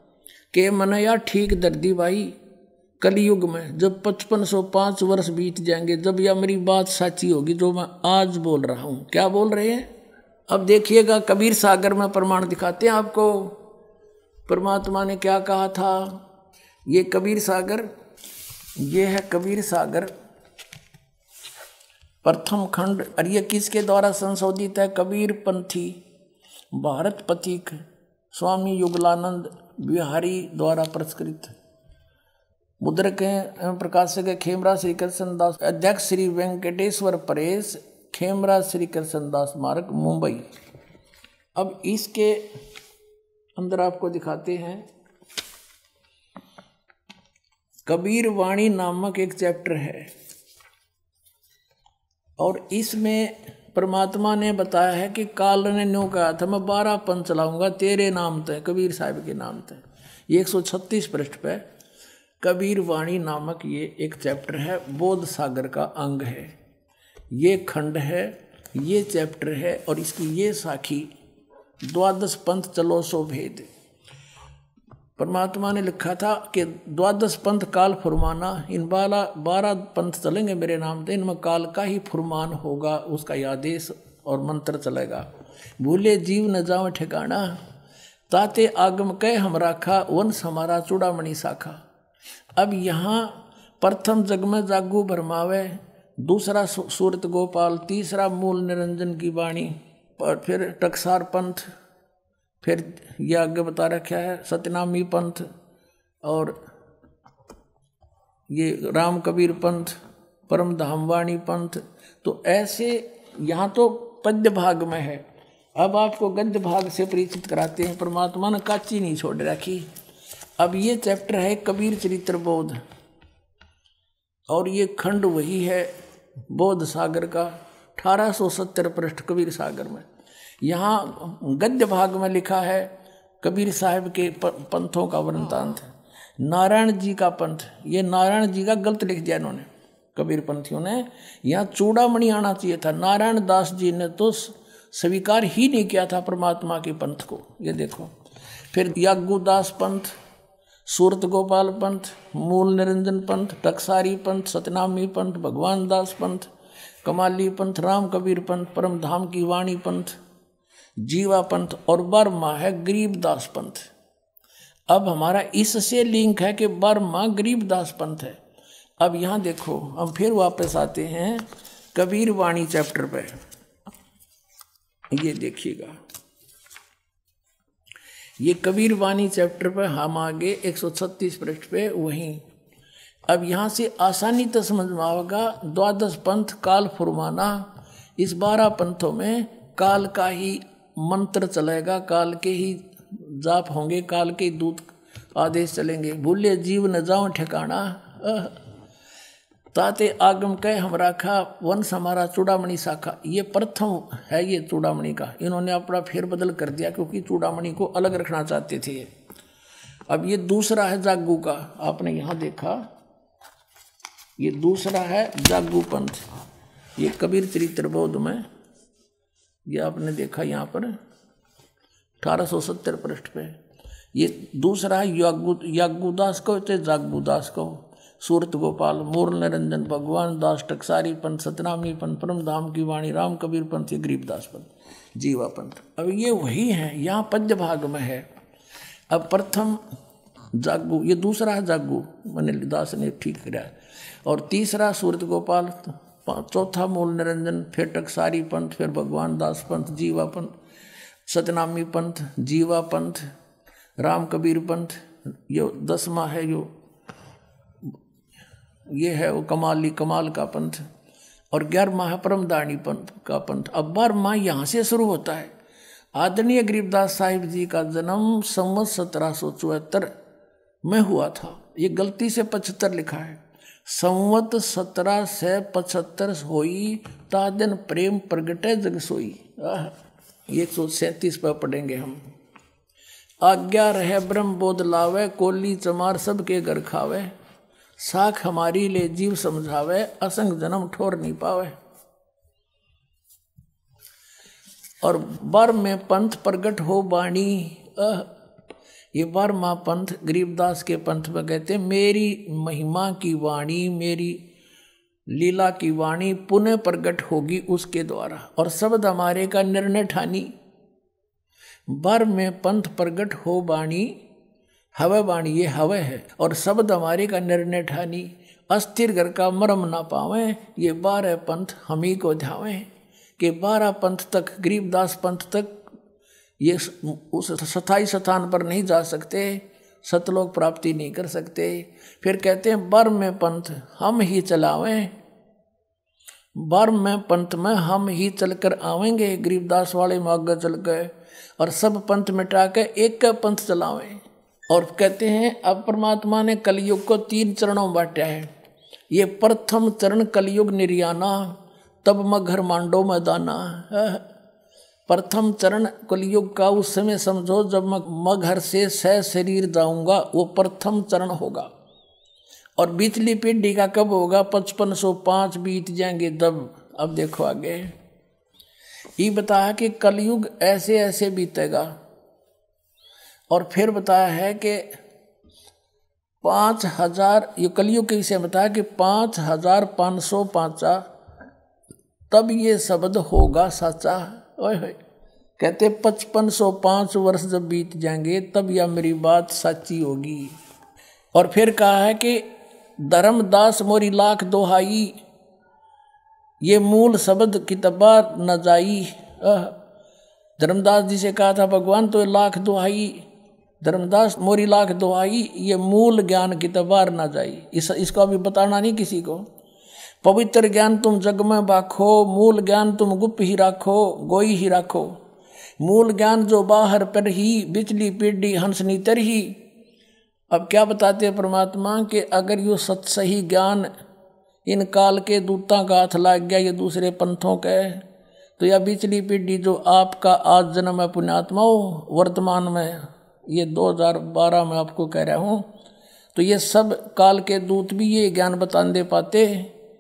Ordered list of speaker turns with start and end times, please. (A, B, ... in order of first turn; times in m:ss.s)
0:00.5-0:02.4 A
0:03.0-0:09.9 A
0:10.5-0:13.6 A
0:14.5-0:16.2 A
0:16.9-0:17.9 A
0:18.8-0:20.1 A
0:22.2-0:26.0 A
0:26.7-0:27.8 A
0:28.3-0:31.5 A
0:32.8-0:40.5 A
0:41.6-0:42.4 A
0:43.6-0:44.9 A
0:47.9-0:50.1 A
0:52.4-1:01.6 A
1:02.4-1:06.6 A
1:07.3-1:11.1 A
1:11.9-1:13.7 A
1:15.2-1:25.3 A
1:25.8-1:27.6 A
1:28.3-1:31.8 A
1:32.6-1:41.7 A
1:42.6-1:45.5 A
1:46.2-1:46.6 A
1:48.5-1:50.0 A
1:50.5-1:55.2 A
1:55.8-1:59.9 A
2:00.6-2:02.8 A
2:04.5-2:05.9 A
2:06.5-2:10.1 A
2:10.6-2:28.1 A
2:28.7-2:30.1 A
2:30.9-2:36.5 A
2:37.0-2:40.2 A
2:41.0-2:43.9 A
2:44.9-2:48.4 A
2:49.0-2:53.4 A
2:55.1-2:56.0 A
2:58.4-3:02.4 A
3:03.3-3:18.6 A
3:19.7-3:29.1 A
3:30.1-3:32.8 A
3:34.4-3:36.2 A
3:37.0-3:38.5 A
3:39.7-3:41.0 A
3:42.2-3:43.6 A
3:44.1-3:58.3 A
3:59.1-3:59.8 A
4:00.5-4:10.5 A
4:11.3-4:13.3 A
4:14.0-4:16.7 A
4:18.9-4:20.8 A
4:21.5-4:25.5 A
4:26.2-4:30.1 A
4:30.8-4:40.0 A
4:40.5-4:42.2 A
4:43.4-4:47.3 A
4:48.0-4:51.8 A
4:55.0-4:58.3 A
4:59.1-5:04.4 A
5:05.3-5:10.5 A
5:11.9-5:14.2 A
5:15.0-5:22.9 A
5:23.4-5:25.8 A
5:26.6-5:35.1 A
5:36.6-5:48.5 A
5:49.1-5:54.2 A
5:55.1-6:01.7 A
6:02.8-6:07.9 A
6:09.2-6:11.9 A
6:13.5-6:14.9 A
6:16.4-6:21.0 A
6:22.3-6:25.0 A
6:25.6-6:30.6 A
6:31.3-6:32.4 A
6:33.0-6:35.2 A
6:36.6-6:39.8 A
6:40.6-6:43.2 A
6:43.8-6:49.5 A
6:50.2-6:55.2 A
6:55.8-6:59.6 A
7:00.5-7:03.9 A
7:04.7-7:08.0 A
7:08.6-7:15.7 A
7:16.4-7:19.7 A